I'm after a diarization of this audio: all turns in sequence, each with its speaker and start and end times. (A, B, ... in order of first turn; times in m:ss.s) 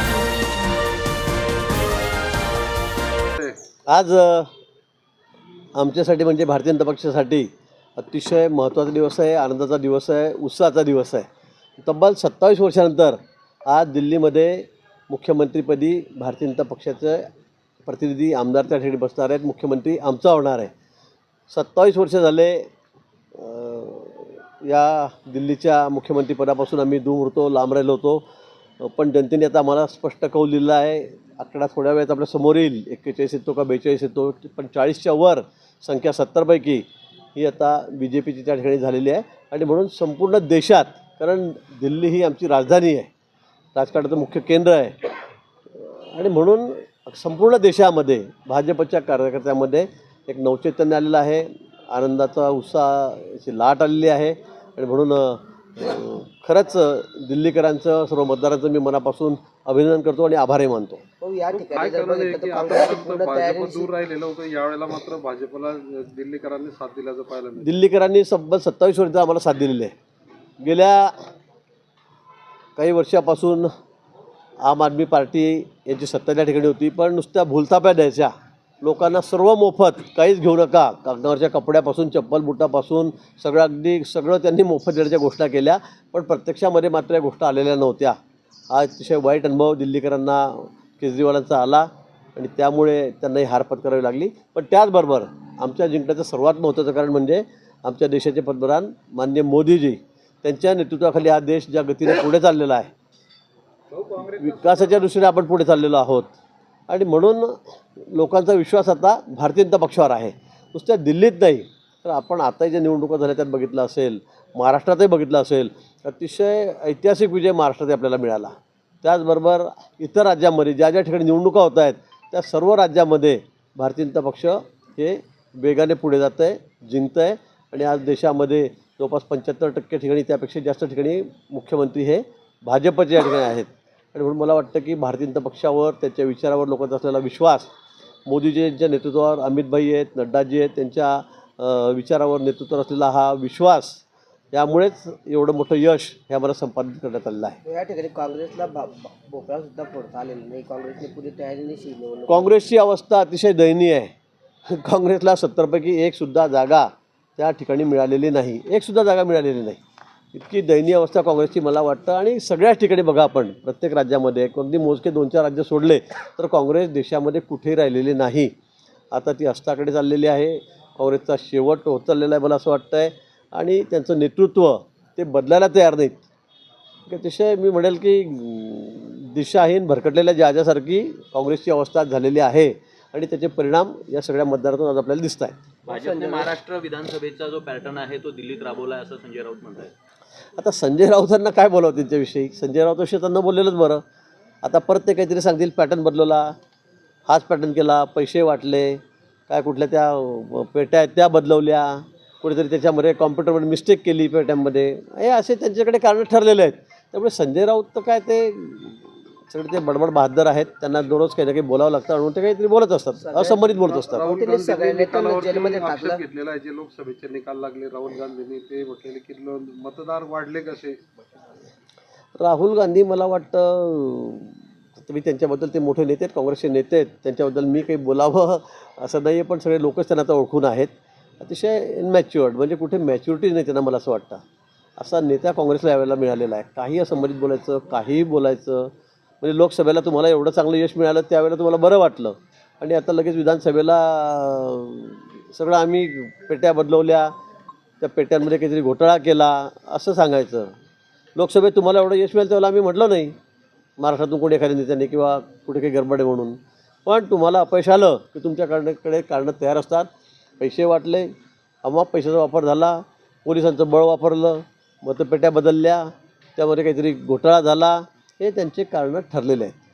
0:03.9-0:04.5 A
0:05.7-0:11.2 A
0:11.8-0:17.3 A
0:17.8-0:20.7 A
0:21.5-0:22.7 A
0:23.3-0:28.2 A
0:28.8-0:36.8 A
0:37.4-0:43.1 A
0:43.7-0:45.1 A
0:45.7-1:01.0 A
1:01.2-1:03.9 B
1:01.5-1:07.7 C
1:07.6-1:09.9 A
1:10.6-1:11.2 A
1:12.8-1:13.7 A
1:14.6-1:28.2 A
1:28.7-1:42.9 A
1:43.9-1:44.8 C
1:44.3-1:46.3 A
1:46.9-2:17.7 A
2:18.3-2:24.0 A
2:24.5-2:27.6 A
2:27.6-2:32.5 B
2:32.3-2:34.1 A
2:34.7-2:39.8 A
2:40.3-2:48.5 A
2:49.1-2:56.2 A
2:57.1-3:05.7 A
3:05.8-3:09.9 D
3:05.9-3:06.5 B
3:10.6-3:14.0 A
3:14.6-3:16.6 A
3:17.3-3:34.2 A
3:33.2-3:36.2 B
3:34.0-3:41.0 C
3:42.4-3:54.4 A
3:55.0-4:07.3 A
4:08.0-4:10.7 A
4:11.4-4:13.3 A
4:14.0-4:20.1 A
4:20.6-4:21.3 A
4:21.8-4:29.8 A